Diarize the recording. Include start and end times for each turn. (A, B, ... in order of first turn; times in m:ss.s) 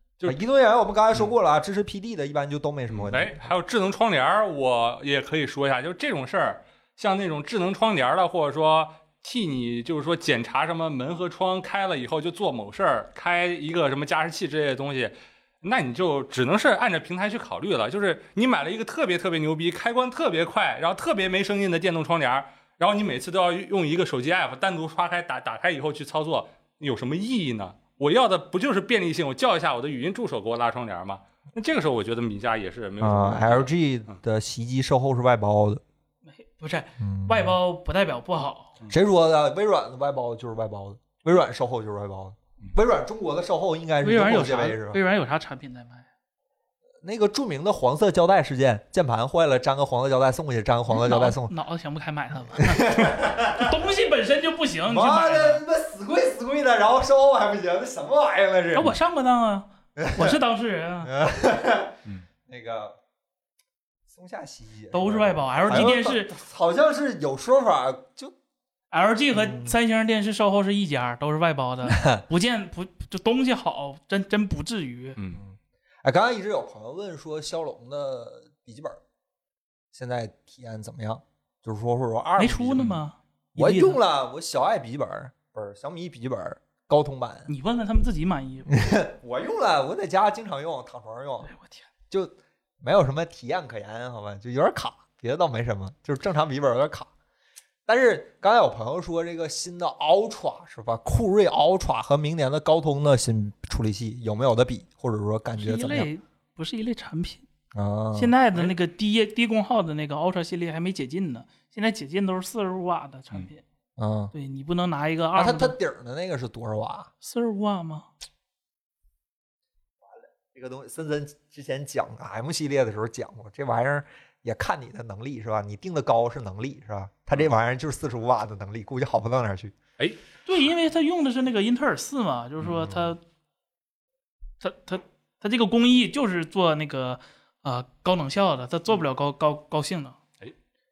0:00.2-0:03.3 A
0:02.9-0:34.1 B
0:33.0-0:35.8 A
0:36.4-0:38.7 C
0:37.0-0:37.6 A
0:38.9-0:45.0 A
0:44.0-0:46.1 C
0:47.0-0:51.5 A
0:50.9-0:55.6 C
0:52.6-0:53.8 A
0:54.9-0:58.9 A
0:58.7-1:01.1 C
1:00.0-1:00.4 A
1:01.0-1:03.0 A
1:04.1-1:08.3 A
1:04.9-1:06.3 C
1:08.9-1:15.2 C
1:09.3-1:09.8 A
1:11.9-1:12.2 A
1:15.3-1:19.0 A
1:19.9-1:22.9 A
1:22.4-1:24.0 C
1:23.6-1:27.5 A
1:27.5-1:28.8 C
1:28.7-1:31.5 A
1:31.5-1:31.8 C
1:32.1-1:37.1 A
1:37.9-1:46.1 A
1:45.6-1:47.4 C
1:47.7-1:48.3 A
1:48.2-1:53.6 C
1:54.0-1:54.3 A
1:54.3-1:55.8 C
1:55.4-1:57.1 A
1:57.2-1:58.1 C
2:00.0-2:09.7 A
2:10.5-2:13.2 C
2:12.6-2:13.1 A
2:14.6-2:20.2 C